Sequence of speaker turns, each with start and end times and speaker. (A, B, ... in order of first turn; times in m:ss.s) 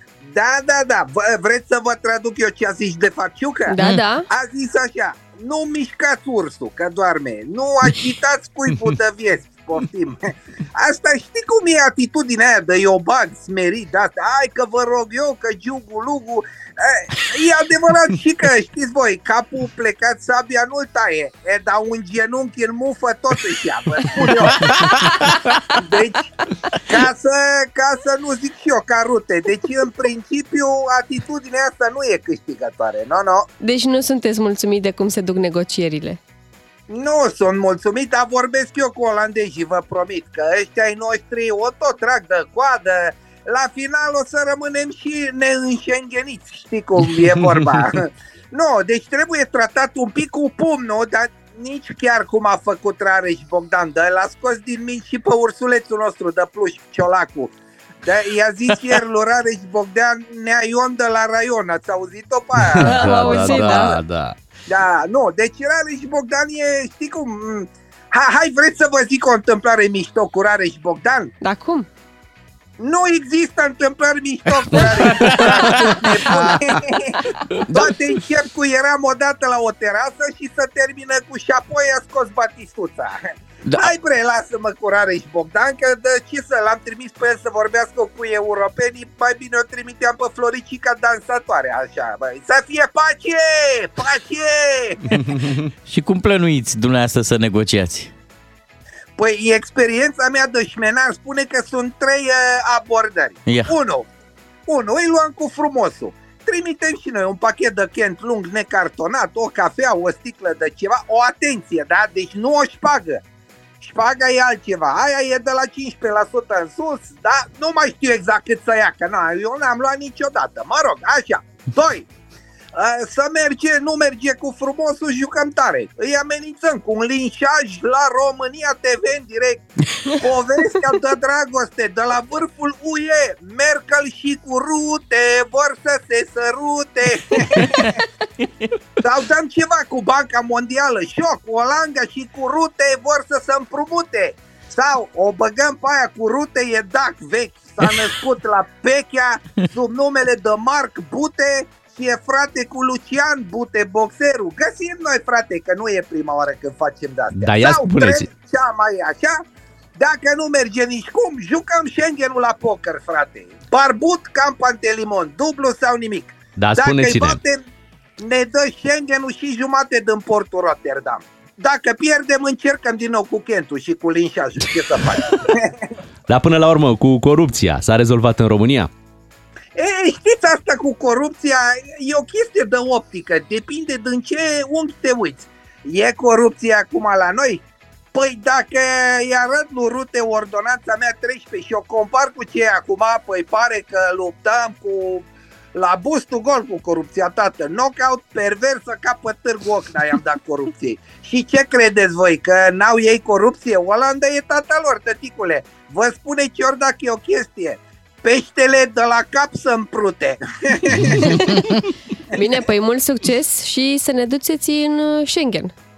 0:00.2-0:03.8 A
0:03.7-0:04.3 B
0:04.3-0:26.3 A
0:24.5-0:24.8 C
0:25.1-0:25.7 B
0:26.9-0:33.5 A
0:33.6-0:36.2 B
0:36.9-0:57.5 A
0:47.4-0:47.8 D
0:58.0-1:03.8 A
1:02.6-1:04.4 D
1:02.8-1:04.0 B
1:04.7-1:11.3 A
1:11.4-1:11.9 B
1:12.8-1:35.4 A
1:14.8-1:16.6 C
1:17.7-1:18.0 C
1:23.6-1:23.9 C
1:35.2-1:35.6 D
1:35.9-1:38.1 C
1:39.2-1:44.1 A
1:43.5-1:43.7 C
1:44.7-1:53.2 A
1:53.8-2:02.1 A
2:02.8-2:18.0 A
2:19.0-2:39.4 A
2:37.4-2:38.3 D
2:40.0-2:47.6 A
2:46.6-2:47.4 D
2:48.2-2:55.8 A
2:56.3-2:58.9 D
2:59.8-3:31.7 A
3:32.3-3:35.7 B